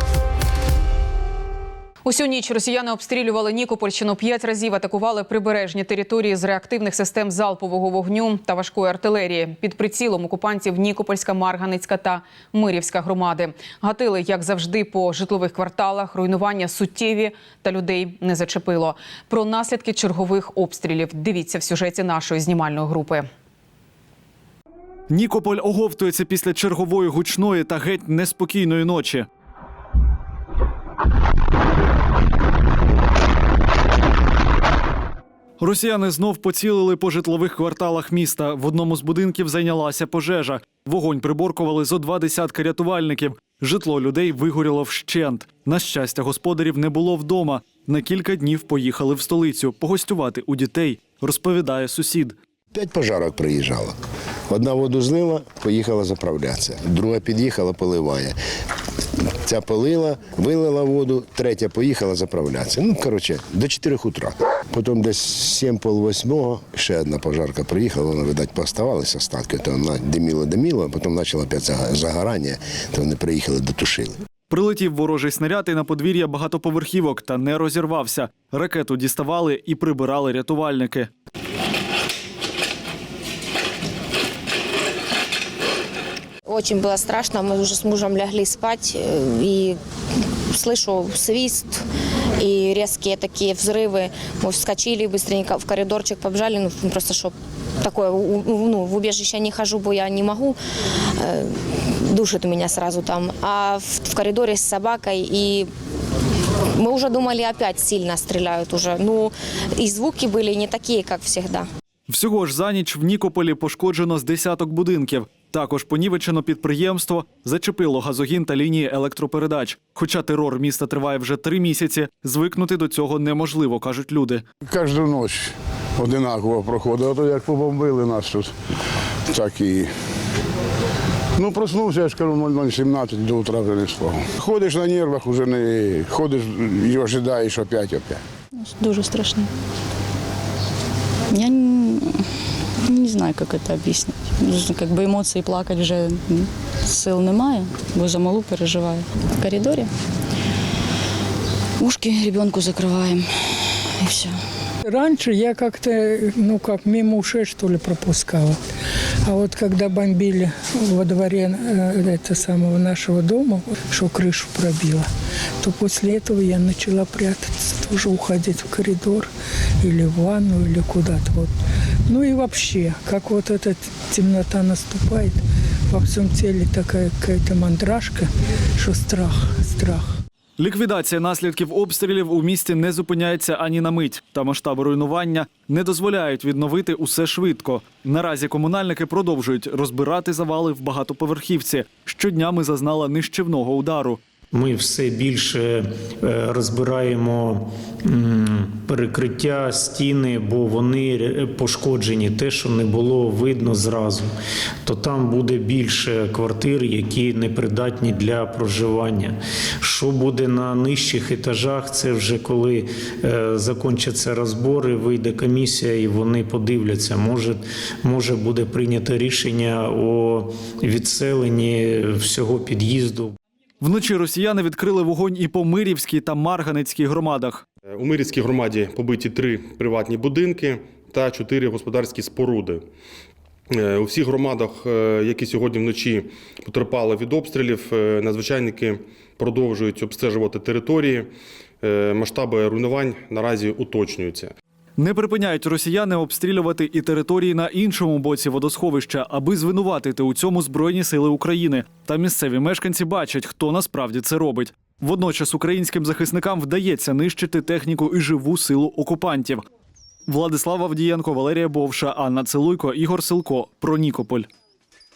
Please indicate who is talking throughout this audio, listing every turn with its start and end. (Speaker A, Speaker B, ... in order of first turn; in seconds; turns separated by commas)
Speaker A: 2.0-23.2, Speaker B: 25.1-29.2, Speaker B: 35.6-52.4, Speaker C: 52.7-54.0, Speaker C: 54.5-58.3, Speaker C: 59.4-74.2, Speaker B: 74.5-81.1, Speaker D: 86.4-89.8, Speaker D: 90.5-91.8, Speaker D: 92.4-100.6, Speaker D: 101.2-105.7, Speaker D: 106.7-111.7, Speaker B: 112.1-124.4, Speaker E: 124.7-128.5, Speaker E: 129.3-129.9, Speaker E: 131.3-138.2, Speaker F: 138.6-139.5, Speaker F: 141.3-142.2, Speaker F: 142.8-149.0, Speaker F: 151.8-154.3, Speaker G: 154.8-158.6, Speaker G: 159.2-165.1, Speaker G: 165.6-171.5, Speaker G: 172.1-180.2, Speaker B: 180.6-194.2, Speaker H: 194.5-204.3, Speaker H: 204.8-223.3, Speaker B: 223.8-227.6, Speaker I: 227.9-232.8, Speaker I: 233.7-241.3, Speaker I: 241.8-244.5, Speaker B: 245.0-259.6, Speaker B: 260.3-264.5